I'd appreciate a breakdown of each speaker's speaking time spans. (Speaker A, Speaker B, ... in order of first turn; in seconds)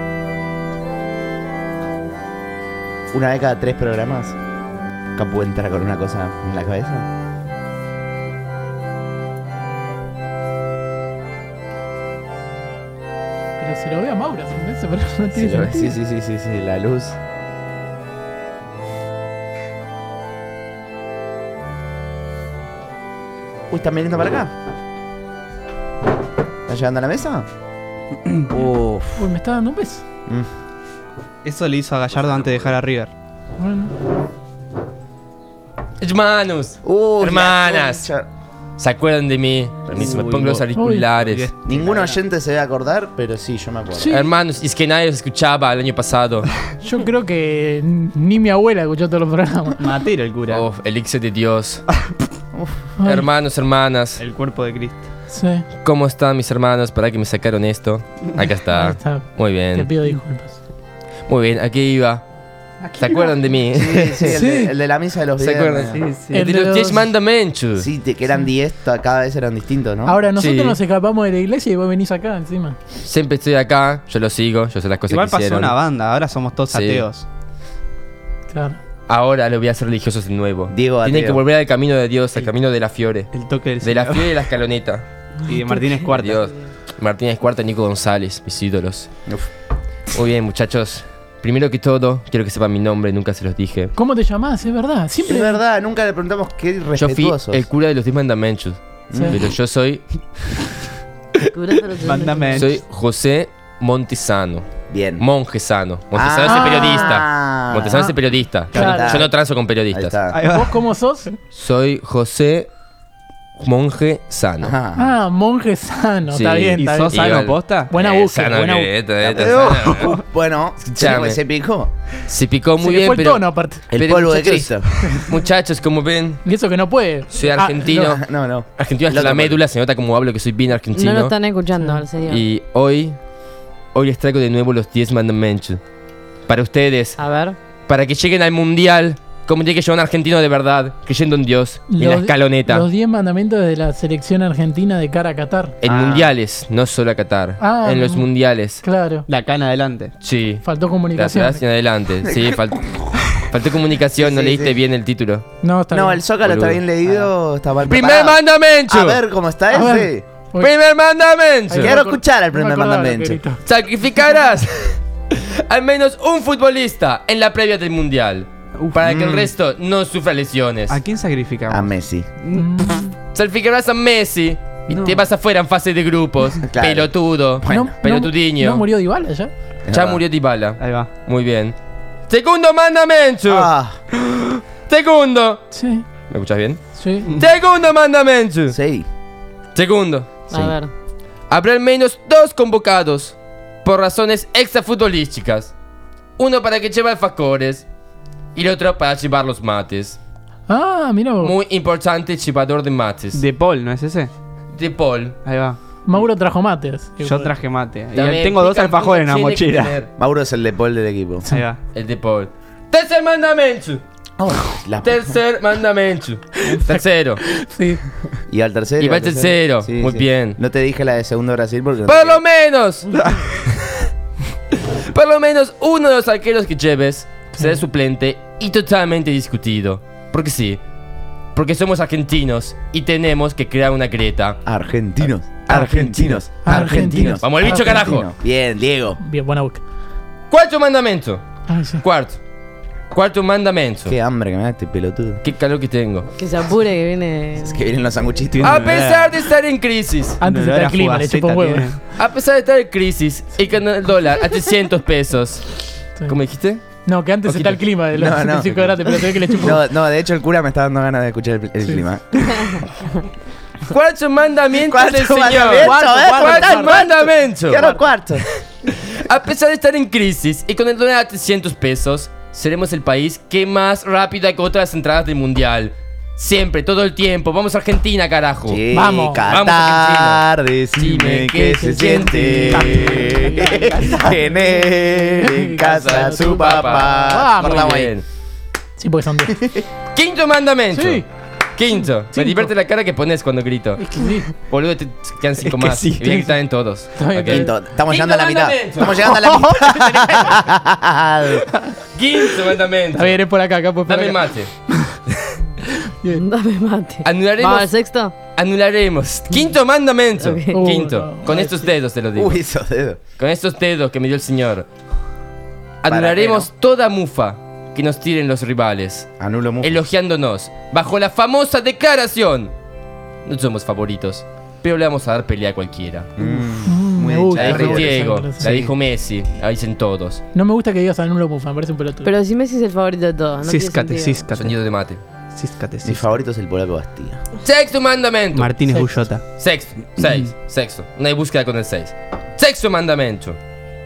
Speaker A: 3.1-4.3, 5.2-7.1, 15.3-17.2, 23.7-24.5, 26.7-27.5, 28.5-29.3, 36.8-38.3, 40.0-40.6, 41.7-44.1, 63.7-66.0, 67.8-70.2, 80.7-81.4, 95.2-97.7, 99.1-99.5, 104.9-105.2, 106.1-108.1, 108.7-109.4, 109.9-110.4, 114.6-115.1, 119.2-121.9, 123.9-125.2, 128.1-129.6, 145.8-146.3, 152.2-153.4, 154.2-154.8, 155.9-160.2, 161.8-163.4, 169.0-169.5, 171.7-172.3, 176.6-178.0, 179.9-180.2, 183.5-184.0, 188.7-189.1, 210.2-211.5, 214.4-215.4, 218.5-222.4, 234.7-239.2, 244.1-245.4, 247.6-248.8, 258.1-262.8, 264.8-268.4, 278.7-288.1, 289.5-289.8, 297.5-301.7, 312.4-313.2, 316.1-316.7, 319.4-320.1, 326.4-328.9, 336.0-337.4
Speaker B: 13.6-16.0, 29.1-30.0, 33.6-33.9, 40.7-41.1, 43.9-44.3, 46.8-49.9, 53.0-53.3, 55.3-55.6, 58.7-60.6, 64.2-64.7, 66.3-67.1, 70.0-72.8, 78.5-78.8, 94.0-95.6, 99.1-99.4, 106.5-107.2, 107.9-108.2, 108.7-109.1, 110.5-111.4, 115.0-118.9, 122.8-123.8, 126.4-128.2, 131.8-132.0, 141.9-145.8, 147.6-148.3, 148.8-149.3, 150.6-151.6, 155.6-156.2, 159.7-160.8, 161.7-163.6, 172.5-173.1, 177.7-179.5, 185.7-186.1, 186.9-187.3, 200.7-201.6, 206.1-207.5, 217.4-218.0, 236.6-238.2, 239.2-239.8, 241.7-242.0, 250.4-252.0, 257.0-259.9, 265.7-268.1, 278.9-279.5, 281.6-287.9, 289.0-289.6, 290.9-291.2, 291.9-292.7, 294.0-294.5, 297.2-297.7, 299.2-300.7, 303.1-304.9, 306.0-306.4, 310.7-311.9, 326.4-328.8, 330.5-332.3
Speaker C: 31.4-33.1, 40.0-40.6, 41.2-42.2, 49.8-50.6, 54.2-55.0, 63.0-63.3, 65.9-66.5, 75.1-77.2, 83.3-84.3, 85.5-86.5, 101.9-102.7, 108.7-109.0, 110.3-110.7, 116.8-117.9, 149.3-150.1, 170.9-173.1, 174.9-175.2, 180.8-181.1, 203.3-204.3, 205.4-205.8, 207.2-210.0, 211.4-211.8, 248.5-249.4, 250.4-252.0, 282.9-283.9, 295.6-296.5, 333.6-334.9, 335.5-336.3, 338.5-339.4
Speaker D: 36.0-38.1, 38.8-41.5, 44.1-46.5, 50.5-51.8, 53.0-54.2, 55.8-59.9, 61.3-62.2, 63.0-64.3, 65.4-67.9, 70.4-70.8, 73.0-75.8, 76.7-77.1, 79.1-83.3, 83.8-85.1, 86.1-89.1, 90.1-93.9, 97.0-100.0, 102.6-110.2, 111.5-112.7, 113.6-114.7, 116.3-120.2, 120.8-121.4, 122.2-126.4, 127.3-128.2, 128.8-131.3, 132.2-133.2, 133.9-135.8, 136.5-137.2, 137.9-142.9, 145.8-148.8, 150.2-155.5, 156.4-156.8, 157.8-159.2, 160.6-162.0, 163.6-171.0, 173.3-178.8, 179.9-181.8, 182.3-183.7, 184.9-185.6, 186.3-186.8, 187.3-188.8, 189.8-190.4, 191.5-195.7, 196.4-197.8, 198.6-200.2, 201.4-203.4, 204.7-205.4, 208.1-210.1, 211.9-214.0, 215.0-217.4, 219.0-220.6, 222.1-223.3, 224.7-230.8, 231.6-234.6, 235.7-238.3, 240.5-241.4, 242.0-242.4, 243.1-244.1, 245.4-246.3, 248.6-250.4, 252.1-257.8, 263.9-267.9, 268.4-278.8, 279.4-283.1, 285.8-288.2, 290.1-294.1, 294.7-299.2, 302.1-303.4, 304.1-304.7, 307.2-307.9, 308.5-312.6, 313.4-314.9, 316.0-319.3, 319.8-322.7, 323.4-326.3, 327.6-330.4, 334.5-335.2, 337.6-339.0, 339.6-343.6
Speaker E: 101.5-102.8, 130.9-132.4, 137.2-137.6, 190.5-190.9, 246.4-247.8, 306.3-308.4, 310.4-310.8, 332.2-334.5